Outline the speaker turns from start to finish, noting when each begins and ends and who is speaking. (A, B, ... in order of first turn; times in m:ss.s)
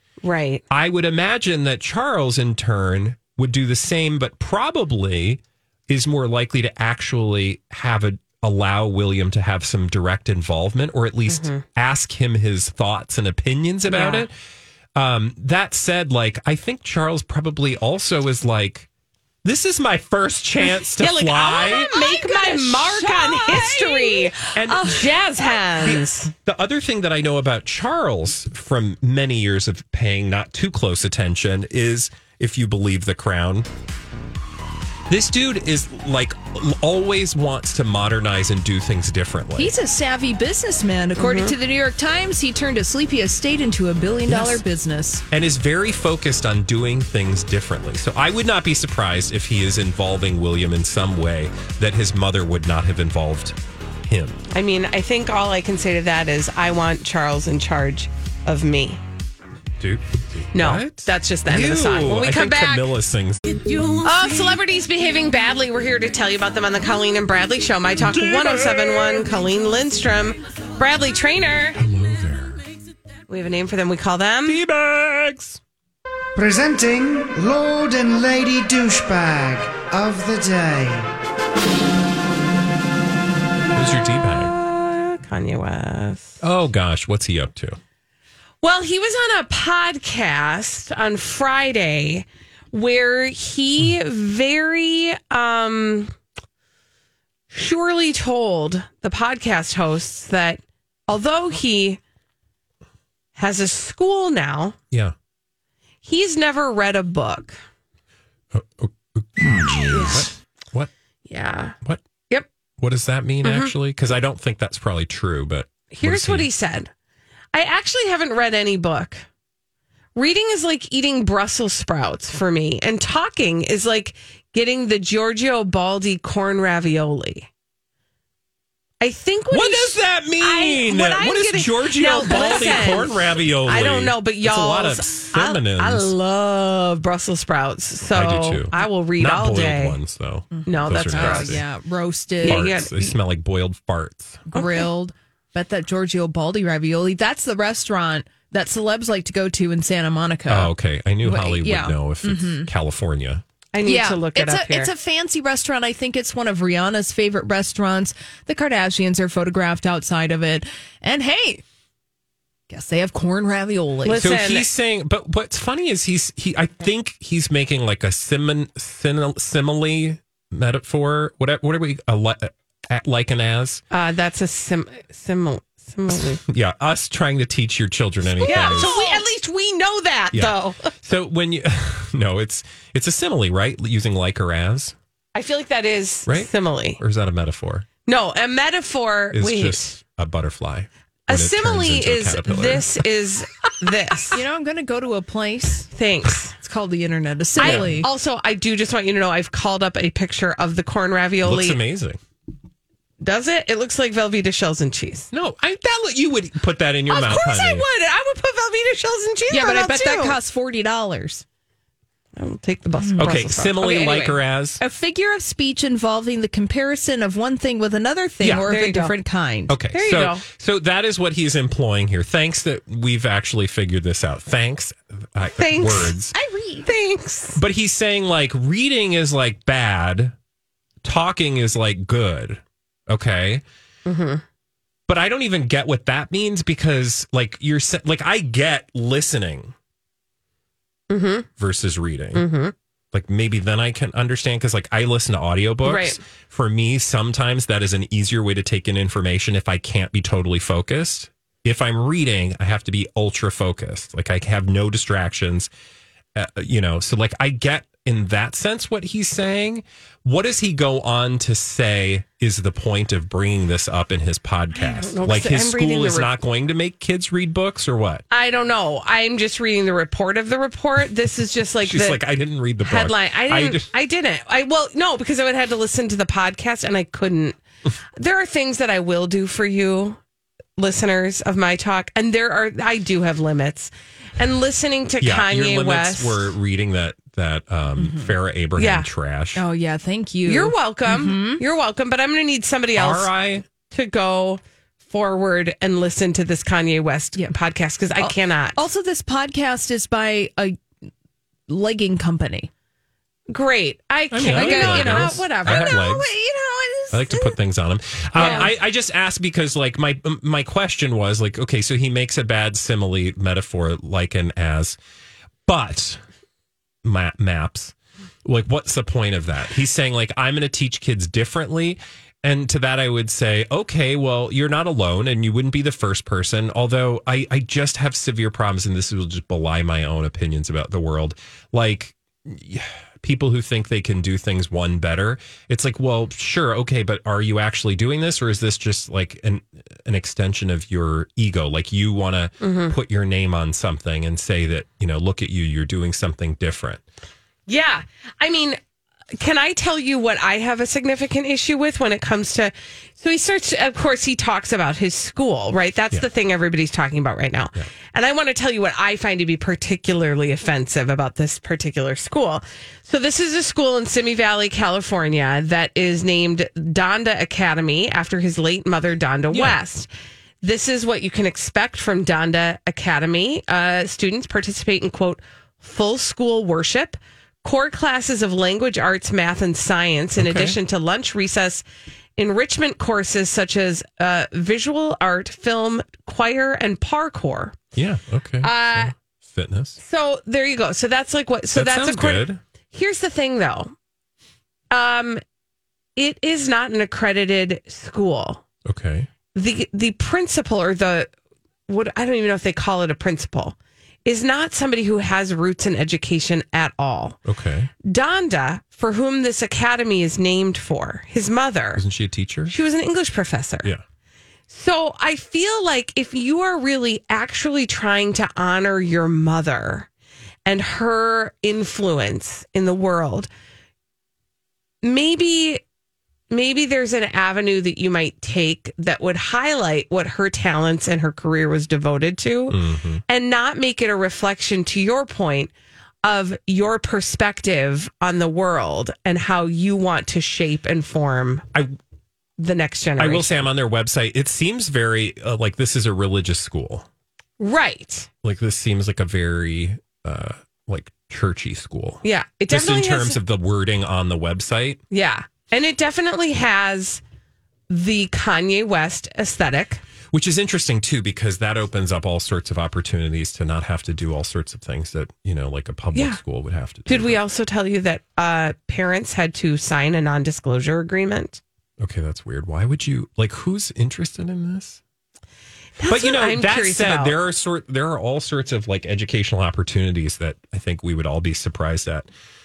0:00.2-0:00.6 A
0:00.7-0:14.3 B
0:11.3-0:11.6 A
0:13.9-0:14.3 A
0:15.0-0:18.9 B
0:19.4-0:21.9 B
0:21.0-0:26.3 A
0:21.6-0:26.0 C
0:24.5-0:25.0 B
0:25.8-0:33.7 B
0:35.1-0:39.7 B
0:39.6-0:45.2 C
0:41.2-0:41.5 A
0:44.3-0:44.6 B
0:45.3-0:54.4 B
0:54.5-0:59.0 A
0:59.8-1:03.6 B
1:00.5-1:02.9 A
1:04.0-1:11.8 A
1:08.0-1:09.3 B
1:11.8-1:12.6 B
1:13.3-1:14.6 A
1:14.5-1:15.6 B
1:16.4-1:21.1 D
1:23.7-1:24.5 B
1:24.4-1:26.4 A
1:26.4-1:27.8 B
1:28.6-1:36.1 A
1:37.5-1:42.0 A
1:43.4-1:44.8 A
1:46.0-1:47.6 A
1:48.5-1:50.9 B
1:49.9-1:50.3 A
1:51.3-1:51.8 A
1:52.8-1:56.5 B
1:53.4-1:53.7 A
1:55.9-1:56.9 A
1:57.5-1:59.3 A
2:00.2-2:07.5 A
2:09.0-2:20.0 A
2:09.5-2:16.1 B
2:12.2-2:13.1 C
2:18.1-2:21.6 B
2:20.5-2:22.6 C
2:20.6-2:21.6 A
2:22.4-2:23.2 A
2:22.4-2:24.5 B
2:24.5-2:30.7 C
2:24.5-2:24.9 A
2:30.5-2:33.4 B
2:31.2-2:32.7 C
2:33.7-2:34.9 A
2:33.8-2:41.6 C
2:42.7-2:44.3 C
2:44.0-2:44.7 A
2:44.2-2:53.8 B
2:53.9-2:56.4 A
2:56.1-2:59.0 B
2:58.4-2:59.2 C
2:58.4-3:00.9 A
3:00.3-3:05.0 B
3:05.4-3:07.0 A
3:06.3-3:07.9 B
3:08.1-3:10.0 A
3:09.3-3:13.0 B
3:11.3-3:14.4 A
3:14.3-3:15.9 C
3:15.9-3:16.5 A
3:16.5-3:18.1 C
3:17.6-3:21.8 A
3:17.6-3:18.1 B
3:21.4-3:22.2 B
3:23.2-3:25.3 A
3:25.3-3:27.8 B
3:27.1-3:30.4 A
3:29.5-3:31.4 C
3:32.4-3:34.4 A
3:33.0-3:33.3 C
3:33.2-3:34.8 B
3:34.8-3:39.7 C
3:38.4-3:38.7 B
3:38.6-3:39.2 A
3:39.7-3:46.4 B
3:39.9-3:40.4 A
3:45.5-3:46.2 A
3:46.3-3:46.9 C
3:46.8-3:47.6 A
3:47.6-3:50.4 B
3:51.0-3:53.6 B
3:54.0-3:54.4 A
3:55.1-3:59.8 B
4:01.1-4:01.5 A
4:01.6-4:02.5 B
4:02.4-4:02.7 A
4:03.1-4:15.7 B
4:05.8-4:06.2 A
4:16.4-4:28.2 B
4:24.8-4:26.3 A
4:28.3-4:32.2 A
4:31.8-4:33.9 B
4:32.8-4:37.6 A
4:38.2-4:40.2 A
4:40.8-4:46.5 A
4:45.2-4:49.6 B
4:48.0-4:48.3 C
4:48.8-4:49.1 A
4:49.6-4:51.6 C
4:50.4-4:53.3 A
4:53.0-4:53.7 B
4:53.8-4:58.8 A
4:58.2-5:00.8 C
5:01.7-5:02.7 C
5:03.5-5:06.0 A
5:04.3-5:06.3 B
5:04.4-5:07.6 C
5:07.1-5:15.0 B
5:08.4-5:08.7 C
5:08.4-5:08.7 A
5:15.7-5:16.2 B
5:17.0-5:47.0 B
5:42.6-5:43.0 A
5:47.7-5:48.8 A
5:49.3-6:10.1 A
6:09.5-6:09.8 B
6:10.6-6:21.8 A
6:20.4-6:20.8 B
6:22.4-6:27.8 A
6:27.9-6:30.0 B
6:28.6-6:29.1 A
6:30.0-6:33.9 A
6:31.7-6:32.6 B
6:34.9-6:35.4 A
6:36.2-6:38.6 A
6:38.8-6:39.3 B
6:39.5-6:41.3 A
6:41.9-6:47.4 A
6:47.4-6:47.9 B
6:48.0-6:52.0 A
6:52.0-6:52.7 B
6:52.7-6:53.9 A
6:54.7-7:00.1 A
7:00.7-7:03.5 A
7:05.0-7:05.8 A
7:06.5-7:15.7 A
7:12.7-7:13.2 B
7:16.2-7:21.6 A
7:22.6-7:23.7 A
7:23.2-7:27.1 B
7:27.6-7:28.3 A
7:28.4-7:35.0 B
7:32.2-7:33.4 A
7:35.1-7:37.2 A
7:37.9-7:40.0 A
7:40.3-7:47.4 B
7:46.1-7:46.4 A
7:47.1-7:51.6 A
7:52.0-7:55.0 B
7:56.0-7:57.4 A
7:56.1-8:02.3 B